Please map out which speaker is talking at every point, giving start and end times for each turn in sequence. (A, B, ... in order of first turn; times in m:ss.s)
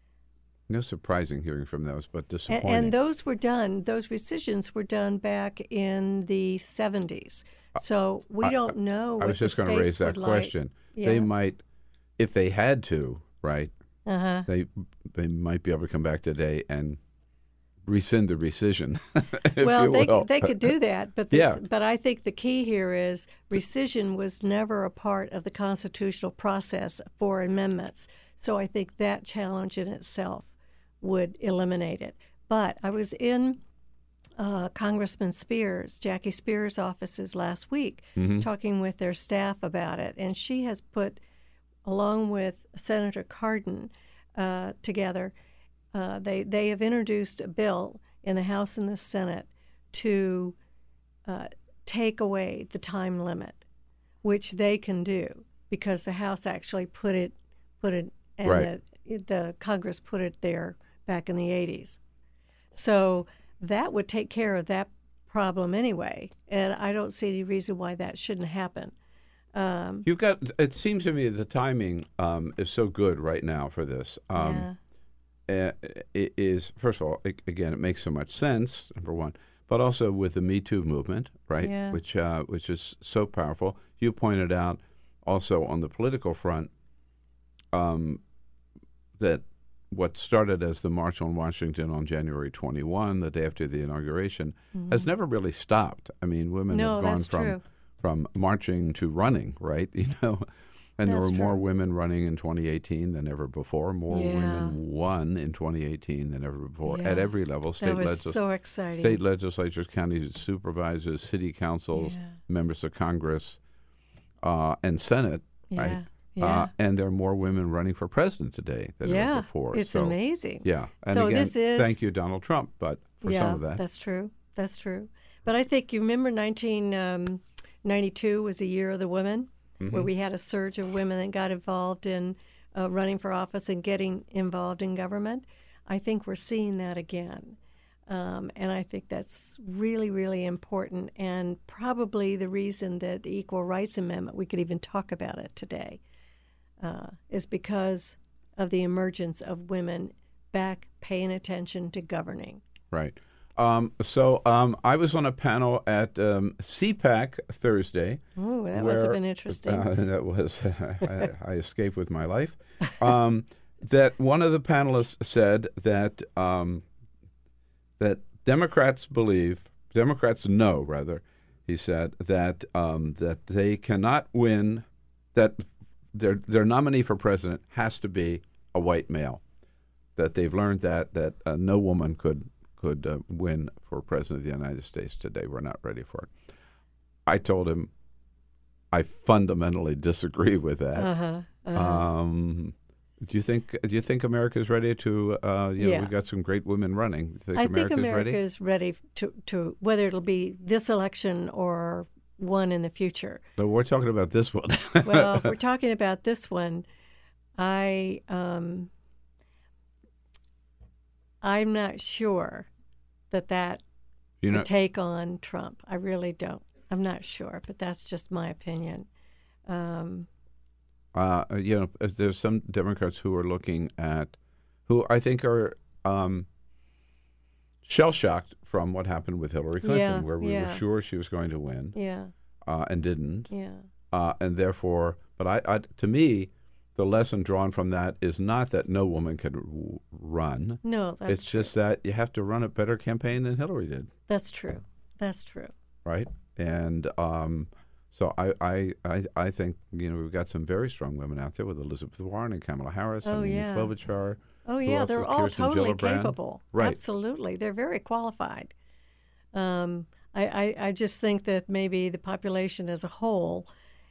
0:00.7-0:02.9 A
0:02.5-0:11.3 B
0:08.4-0:11.6 A
0:12.2-0:13.7 A
0:14.1-0:14.5 B
0:14.4-0:17.0 A
0:17.9-0:20.7 A
0:19.6-0:30.5 B
0:21.3-0:21.6 A
0:31.0-0:33.6 B
0:34.4-0:41.2 B
0:38.2-0:38.4 A
0:41.8-0:45.3 B
0:45.9-0:50.5 B
0:51.3-0:53.6 B
0:54.2-1:02.0 B
0:58.4-0:58.7 A
1:02.7-1:08.9 B
1:09.5-1:10.0 B
1:10.0-1:14.7 A
1:14.3-1:14.8 B
1:15.5-1:26.7 A
1:21.6-1:22.0 B
1:27.7-1:28.2 A
1:29.2-1:40.4 A
1:34.7-1:35.1 B
1:36.7-1:37.6 B
1:41.0-1:48.4 A
1:41.0-1:41.6 B
1:44.1-1:44.8 B
1:46.8-1:49.2 B
1:48.9-1:53.6 A
1:51.9-1:52.4 B
1:54.4-2:03.8 A
1:55.7-1:56.7 B
1:59.0-2:02.0 B
2:03.2-2:17.6 B
2:09.8-2:10.1 A
2:18.1-2:26.0 B
2:26.8-2:32.6 B
2:32.9-2:38.2 A
2:38.4-2:39.9 B
2:38.7-2:46.8 A
2:48.0-2:59.4 A
3:00.2-3:06.3 A
3:07.3-3:07.9 A
3:08.9-3:11.1 A
3:11.0-3:12.0 B
3:11.7-3:18.4 A
3:15.8-3:16.1 B
3:17.5-3:23.4 B
3:23.6-3:25.5 A
3:25.0-3:26.8 B
3:27.6-3:28.9 B
3:31.4-3:32.7 B
3:33.3-3:33.8 B
3:34.4-3:34.7 A
3:34.5-3:39.1 B
3:39.7-3:40.3 B
3:41.1-3:44.3 A
3:44.9-3:46.5 A
3:47.8-3:52.0 A
3:49.8-3:50.8 B
3:51.9-3:52.3 B
3:52.7-3:53.5 A
3:53.5-3:53.8 B
3:54.1-4:04.1 A
4:00.8-4:01.7 B
4:04.3-4:05.7 B
4:06.0-4:17.0 A
4:13.2-4:13.9 B
4:14.6-4:18.7 B
4:19.5-4:23.7 B